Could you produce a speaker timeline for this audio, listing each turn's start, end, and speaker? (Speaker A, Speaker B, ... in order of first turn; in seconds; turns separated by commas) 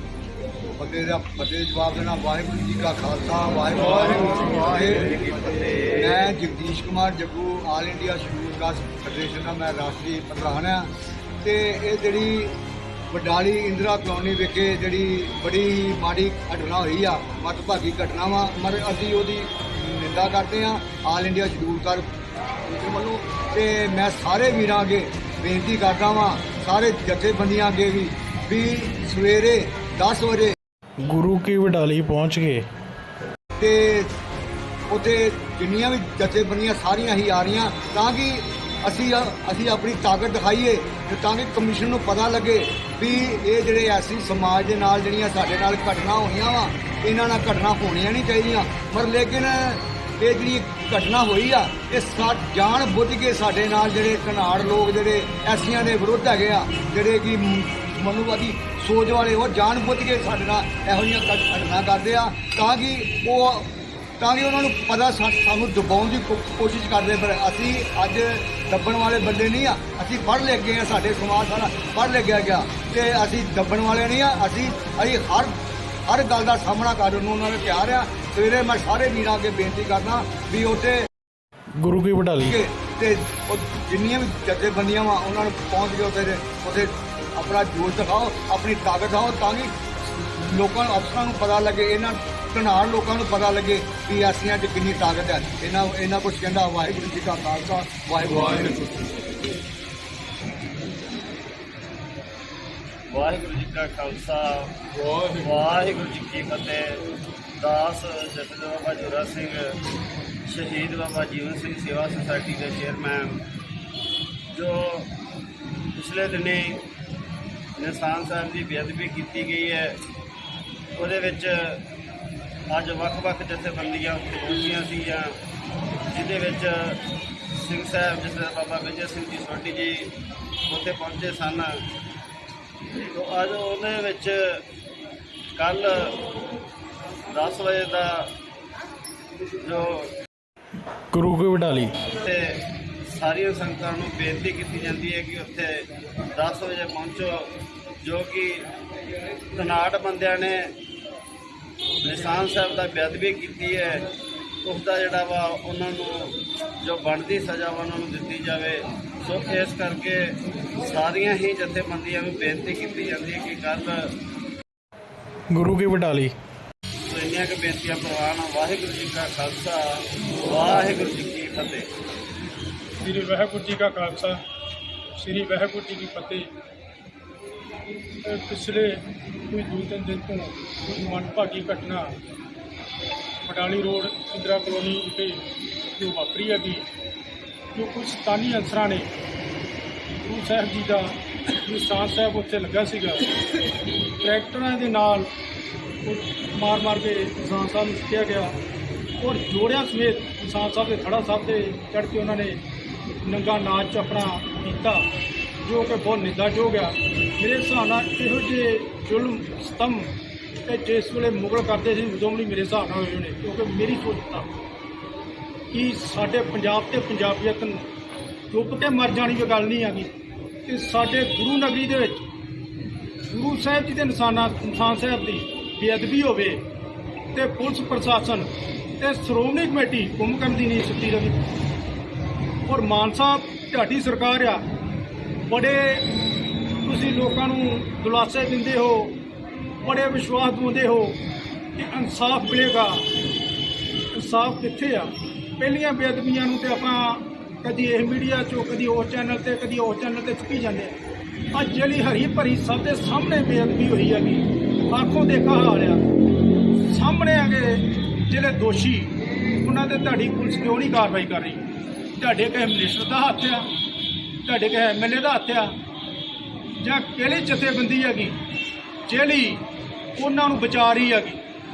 Speaker A: 0.8-5.1, Speaker B: 4.2-6.2, Speaker A: 6.0-10.9, Speaker A: 11.4-12.6, Speaker A: 13.1-22.1, Speaker A: 22.6-30.6, Speaker C: 31.1-32.6, Speaker A: 33.6-34.1, Speaker A: 34.9-75.5, Speaker A: 76.1-81.0, Speaker C: 81.8-82.6, Speaker A: 82.4-99.2, Speaker B: 103.1-107.0, Speaker B: 107.6-109.8, Speaker B: 110.5-113.4, Speaker B: 114.5-115.1, Speaker B: 116.0-116.8, Speaker B: 117.8-120.0, Speaker B: 121.0-121.8, Speaker B: 122.7-125.3, Speaker B: 126.1-127.0, Speaker B: 127.5-130.1, Speaker B: 130.7-131.8, Speaker B: 133.0-134.6, Speaker B: 135.6-136.2, Speaker B: 137.3-138.3, Speaker B: 139.6-140.1, Speaker C: 141.1-142.0, Speaker B: 142.1-145.8, Speaker B: 146.3-147.5, Speaker B: 148.0-148.7, Speaker B: 149.5-150.7, Speaker B: 152.0-154.1, Speaker B: 154.6-160.3, Speaker B: 160.8-164.1, Speaker C: 165.5-166.3, Speaker B: 167.1-171.9, Speaker D: 173.0-174.4, Speaker D: 175.2-176.5, Speaker D: 178.2-182.2, Speaker D: 183.4-185.4, Speaker D: 186.0-186.9, Speaker D: 187.7-189.1, Speaker D: 190.2-193.3, Speaker D: 194.2-195.3, Speaker D: 196.1-198.6, Speaker D: 199.2-202.6, Speaker D: 203.2-205.1, Speaker D: 205.6-210.1, Speaker D: 210.7-214.5, Speaker D: 215.7-217.9, Speaker D: 218.5-220.1, Speaker D: 220.7-222.2, Speaker D: 223.3-226.6, Speaker D: 227.3-228.5, Speaker D: 229.0-231.4, Speaker D: 232.7-234.7, Speaker D: 235.5-236.1, Speaker D: 236.8-239.2, Speaker D: 239.8-241.2, Speaker D: 241.8-243.1, Speaker D: 244.1-250.9, Speaker D: 251.5-256.1, Speaker D: 256.8-261.6, Speaker D: 262.2-263.7, Speaker D: 264.4-265.8, Speaker D: 266.8-268.4, Speaker D: 269.1-269.6, Speaker D: 270.2-271.4